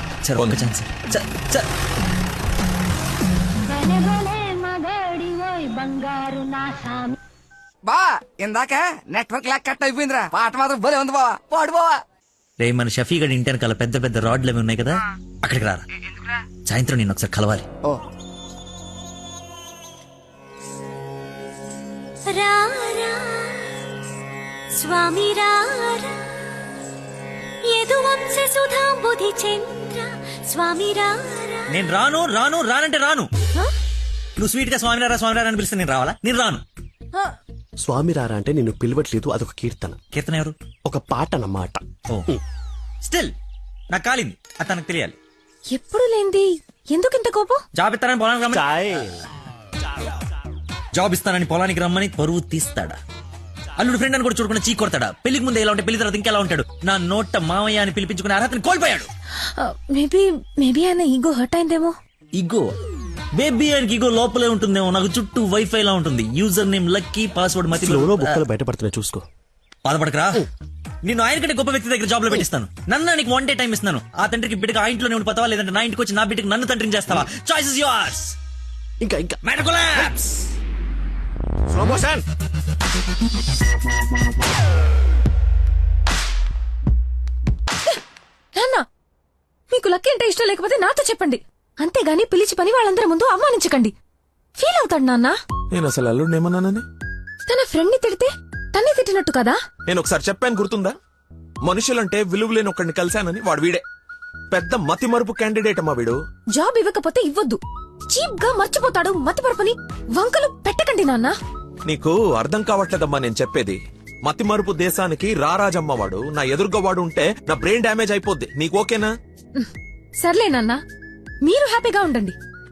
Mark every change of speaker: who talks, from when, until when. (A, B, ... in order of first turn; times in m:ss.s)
0:00.2-0:01.7 A
0:07.8-0:12.0 B
0:12.6-0:15.8 A
0:16.6-0:17.7 A
0:22.2-0:23.8 C
0:24.7-0:26.4 C
0:27.7-0:31.7 C
0:31.7-0:33.3 A
0:34.4-0:36.6 A
0:37.8-0:40.0 D
0:40.1-0:40.5 A
0:40.8-0:42.4 D
0:43.0-0:43.3 A
0:43.9-0:45.2 A
0:45.7-0:47.6 E
0:47.7-0:48.6 A
0:48.5-0:49.2 D
0:50.9-0:53.0 A
0:53.8-0:59.1 A
0:59.4-1:01.9 E
1:02.4-1:02.6 A
1:03.4-1:08.4 A
1:07.7-1:09.2 D
1:09.8-1:10.5 A
1:11.0-1:18.4 A
1:19.0-1:19.4 D
1:19.4-1:20.2 A
1:21.7-1:22.2 D
1:28.5-1:28.8 E
1:29.7-1:33.9 E
1:34.6-1:35.4 E
1:35.7-1:36.8 F
1:37.4-1:39.6 E
1:39.9-1:41.0 F
1:41.6-1:43.8 F
1:44.5-1:46.2 F
1:46.5-1:51.3 E
1:51.8-1:59.1 F
1:59.6-2:00.8 E
2:01.4-2:02.3 E